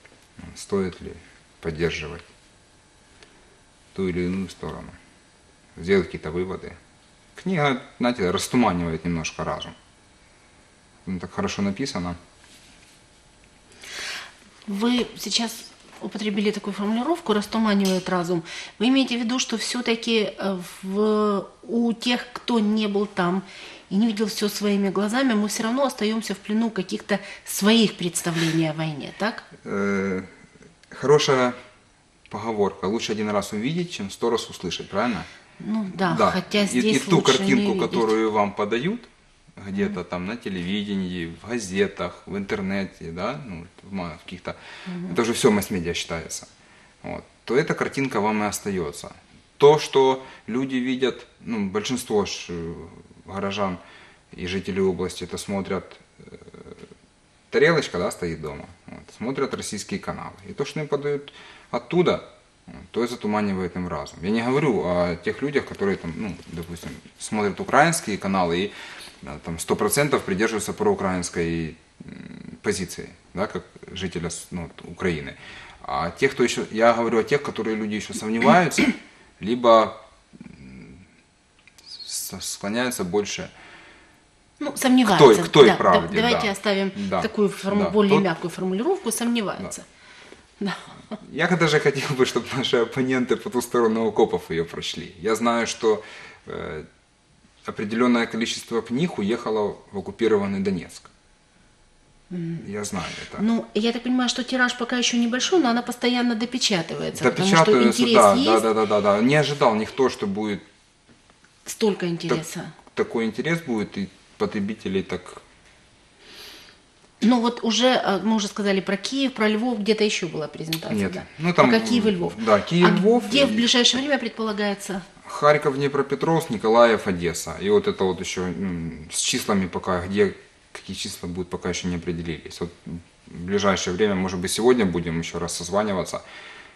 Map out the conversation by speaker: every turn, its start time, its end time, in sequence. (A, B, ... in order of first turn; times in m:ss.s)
0:00.4-0:02.3 A
0:03.9-0:05.0 A
0:05.8-0:06.8 A
0:07.4-0:09.8 A
0:11.0-0:12.2 A
0:14.7-0:29.5 B
0:29.6-0:30.3 A
0:30.9-0:31.6 A
0:32.3-0:35.3 A
0:35.6-0:38.1 B
0:36.1-0:46.5 A
0:44.9-0:45.2 B
0:47.0-0:53.8 A
0:54.3-0:56.9 A
0:57.5-1:21.0 A
1:21.9-1:23.5 A
1:24.6-1:29.8 B
1:25.1-1:28.3 A
1:30.6-1:31.2 B
1:31.1-1:36.9 A
1:37.6-1:41.1 A
1:42.3-1:42.7 B
1:42.6-1:43.5 A
1:43.4-1:48.7 B
1:47.2-1:50.6 A
1:51.7-1:52.8 B
1:52.3-1:55.4 A
1:57.2-2:05.1 B
2:00.9-2:03.7 A
2:05.2-2:16.2 A